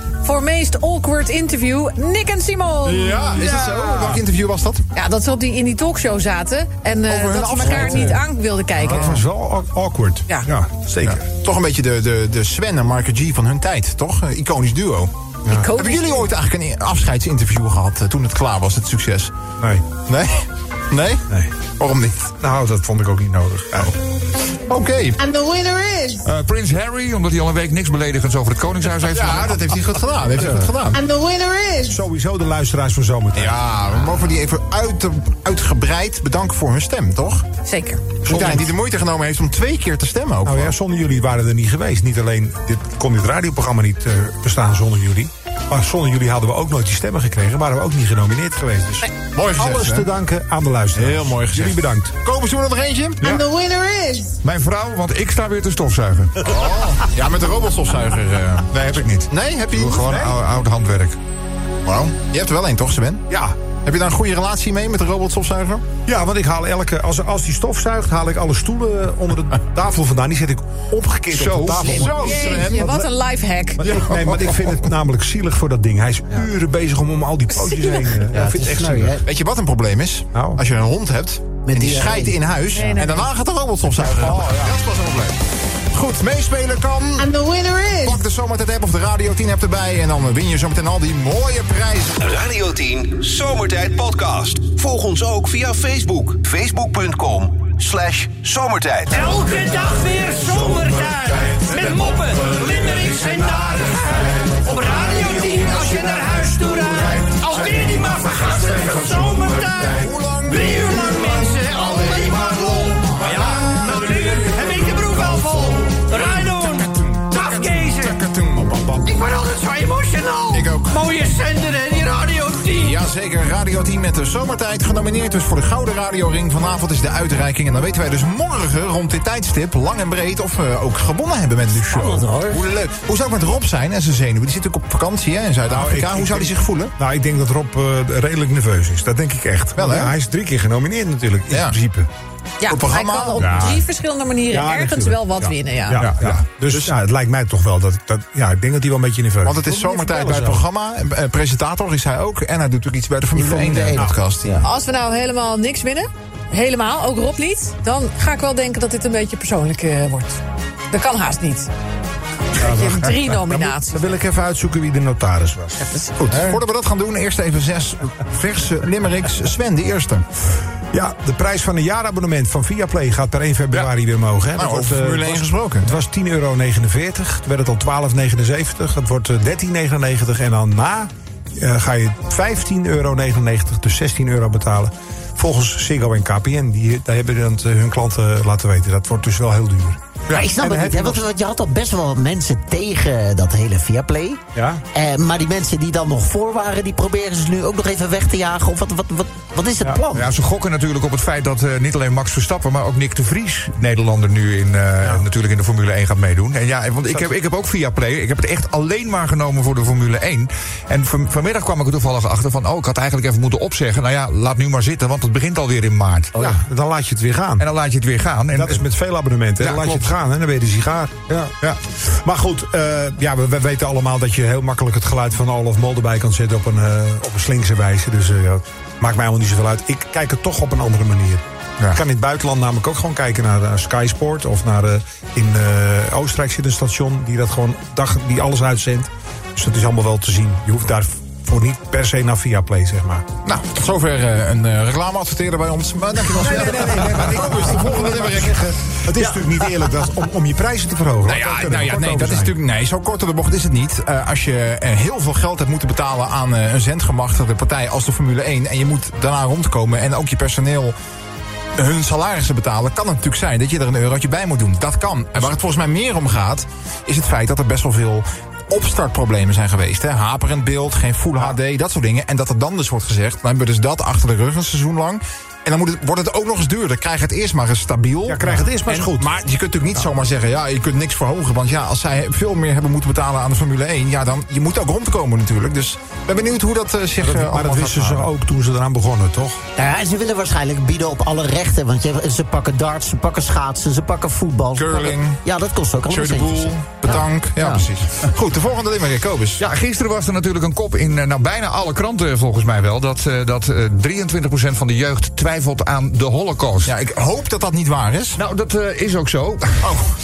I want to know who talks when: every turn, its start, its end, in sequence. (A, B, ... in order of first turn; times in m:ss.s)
0:00.2-0:03.3 A
0:02.8-0:04.8 B
0:03.3-0:04.2 C
0:04.9-0:09.1 A
0:07.1-0:08.2 B
0:07.6-0:11.2 C
0:08.8-0:09.2 B
0:11.0-0:15.1 B
0:15.4-0:15.7 C
0:15.5-0:16.3 A
0:15.7-0:19.3 B
0:19.6-0:19.8 C
0:20.0-0:21.2 B
0:21.8-0:22.3 B
0:22.4-0:24.0 C
0:24.7-0:25.2 B
0:25.2-0:26.2 D
0:26.2-0:29.6 E
0:29.1-0:31.0 B
0:30.3-0:30.7 C
0:30.9-0:32.0 D
0:31.9-0:33.6 C
0:33.3-0:37.5 B
0:37.6-0:38.0 A
0:38.2-0:38.7 C
0:38.2-0:40.7 B
0:40.4-0:52.1 C
0:49.3-0:50.1 B
0:50.9-0:53.2 B
0:53.2-0:54.4 D
0:54.4-0:56.5 E
0:56.4-1:00.1 B
0:58.8-1:01.2 E
0:59.9-1:00.4 C
1:01.8-1:03.2 B
1:03.3-1:03.6 C
1:03.8-1:05.8 B
1:06.0-1:13.1 C
1:11.3-1:12.0 E
1:11.6-1:13.0 B
1:11.8-1:13.8 A
1:13.8-1:19.2 C
1:13.8-1:14.8 B
1:17.6-1:18.2 A
1:18.3-1:19.2 F
1:19.2-1:25.4 B
1:20.3-1:20.6 C
1:21.6-1:22.4 F
1:22.7-1:23.3 A
1:24.0-1:24.7 C
1:25.9-1:27.3 B
1:27.2-1:28.2 D
1:28.0-1:32.2 B
1:32.2-1:39.3 G
1:39.1-1:56.7 H
1:40.4-1:43.4 C
1:44.1-1:47.0 C
1:50.0-1:54.1 B
1:55.0-1:55.4 B
1:56.1-1:59.0 B
1:59.2-2:00.5 H
2:00.5-2:01.1 B
2:01.1-2:02.9 H
2:02.7-2:16.9 B
2:11.9-2:12.6 F
2:15.7-2:22.1 C
2:19.8-2:20.1 B
2:21.5-2:21.8 B
2:22.6-2:26.1 A
2:22.6-2:23.8 B
2:23.4-2:23.8 C
2:24.5-2:30.6 C
2:26.0-2:26.9 B
2:26.2-2:26.4 E
2:29.4-2:34.6 B
2:33.3-2:34.7 F
2:34.6-2:40.4 A
2:40.9-2:41.7 A
2:42.6-2:44.1 A
2:42.6-2:46.6 C
2:45.8-2:46.2 A
2:46.2-2:50.2 B
2:50.9-3:11.2 C
2:54.6-2:56.0 B
3:10.3-3:14.4 F
3:14.5-3:14.8 C
3:14.9-3:20.3 F
3:20.1-3:36.5 E
3:36.3-3:37.7 C
3:37.6-3:38.8 E
3:38.5-4:03.2 C
3:39.6-3:40.1 E
4:03.4-4:08.9 B
4:06.2-4:12.6 C
4:11.2-4:20.9 B
4:21.8-4:48.3 B
4:38.3-4:39.3 C
4:47.2-4:49.6 C
4:49.8-4:57.8 F
4:54.7-4:55.4 B
4:56.1-4:59.6 B
4:59.6-5:06.9 E
5:06.8-5:08.4 B
5:08.4-5:09.9 E
5:09.8-5:10.1 B